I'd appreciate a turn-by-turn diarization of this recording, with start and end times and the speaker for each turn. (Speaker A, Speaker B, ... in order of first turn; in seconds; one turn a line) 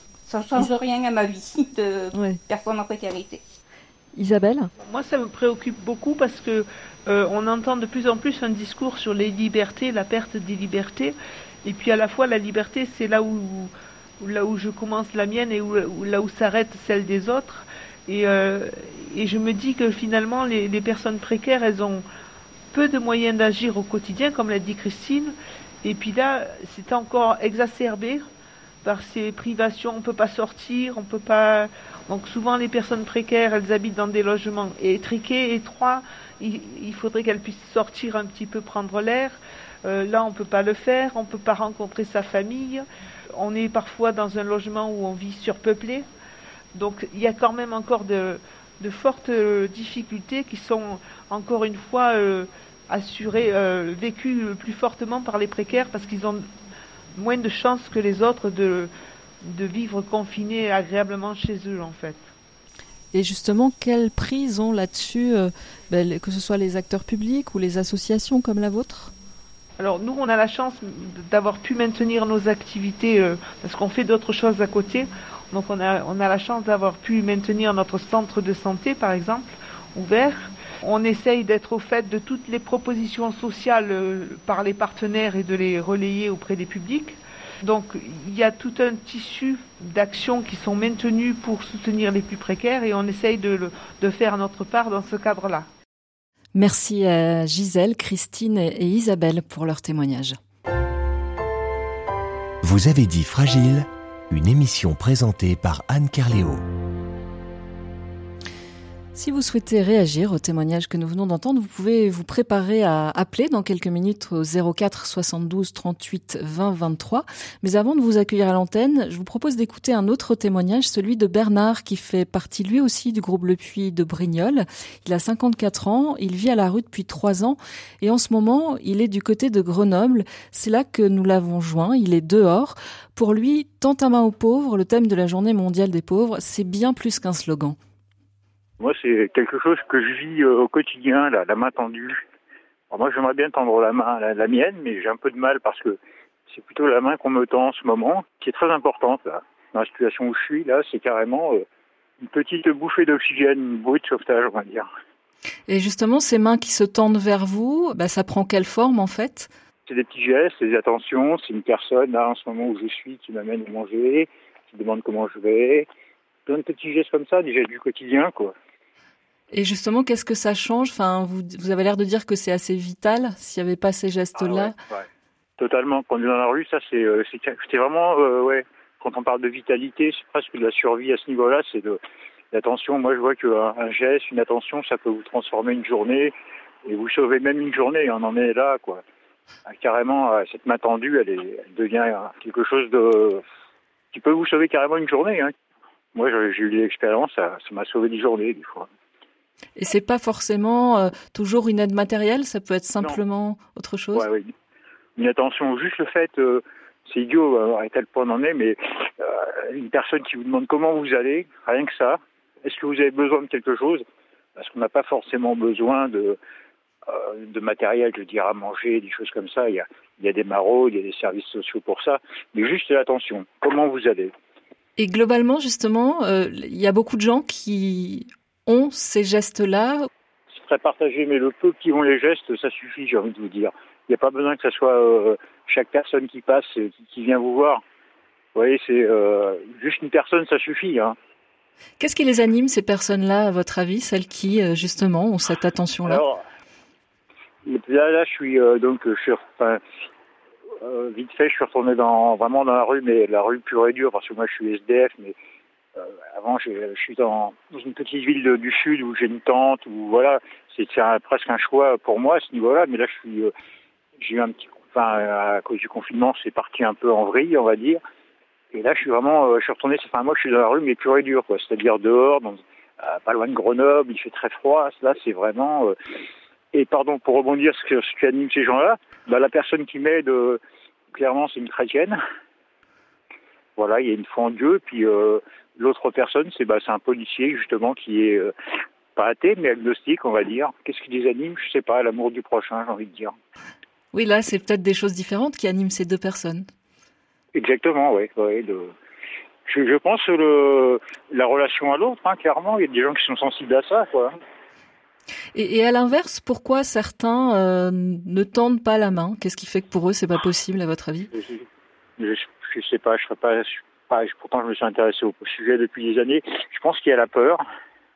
Speaker A: 0.3-3.4
Speaker B: 2.1-2.4
Speaker B: 4.1-4.7
Speaker C: 4.9-11.1
Speaker C: 11.6-22.0
Speaker C: 22.7-25.3
Speaker C: 25.8-28.2
Speaker C: 28.8-42.8
Speaker C: 43.4-46.0
Speaker C: 46.7-56.4
Speaker C: 57.1-58.9
Speaker C: 59.4-62.2
Speaker B: 63.1-69.1
Speaker C: 69.8-95.6
Speaker B: 96.5-100.4
Speaker D: 102.6-106.6
Speaker B: 109.1-137.8
Speaker E: 138.8-142.2
Speaker E: 142.9-151.6
Speaker E: 152.2-154.9
Speaker B: 155.7-159.5
Speaker E: 159.9-165.9
Speaker E: 166.4-168.5
Speaker B: 169.5-174.7
Speaker E: 174.3-175.0
Speaker E: 175.6-182.0
Speaker E: 182.5-186.3
Speaker E: 186.8-189.0
Speaker E: 189.7-193.4
Speaker E: 194.1-195.5
Speaker E: 196.1-198.9
Speaker B: 199.8-204.2
Speaker E: 204.1-204.5
Speaker E: 205.2-214.0
Speaker E: 214.6-216.4
Speaker E: 217.1-224.3
Speaker B: 225.0-230.1
Speaker E: 230.5-237.8
Speaker E: 238.6-241.2
Speaker B: 242.0-246.2
Speaker E: 246.0-246.4
Speaker E: 247.6-249.8
Speaker E: 250.8-255.3
Speaker E: 256.0-263.5
Speaker E: 264.2-268.0
Speaker E: 268.7-275.9
Speaker E: 276.7-280.6
Speaker E: 281.1-282.2
Speaker E: 283.8-288.5
Speaker E: 289.1-293.3
Speaker B: 294.1-296.7
Speaker E: 297.5-298.9
Speaker E: 299.6-304.3
Speaker B: 305.5-311.3
Speaker E: 311.3-311.6
Speaker E: 312.2-317.6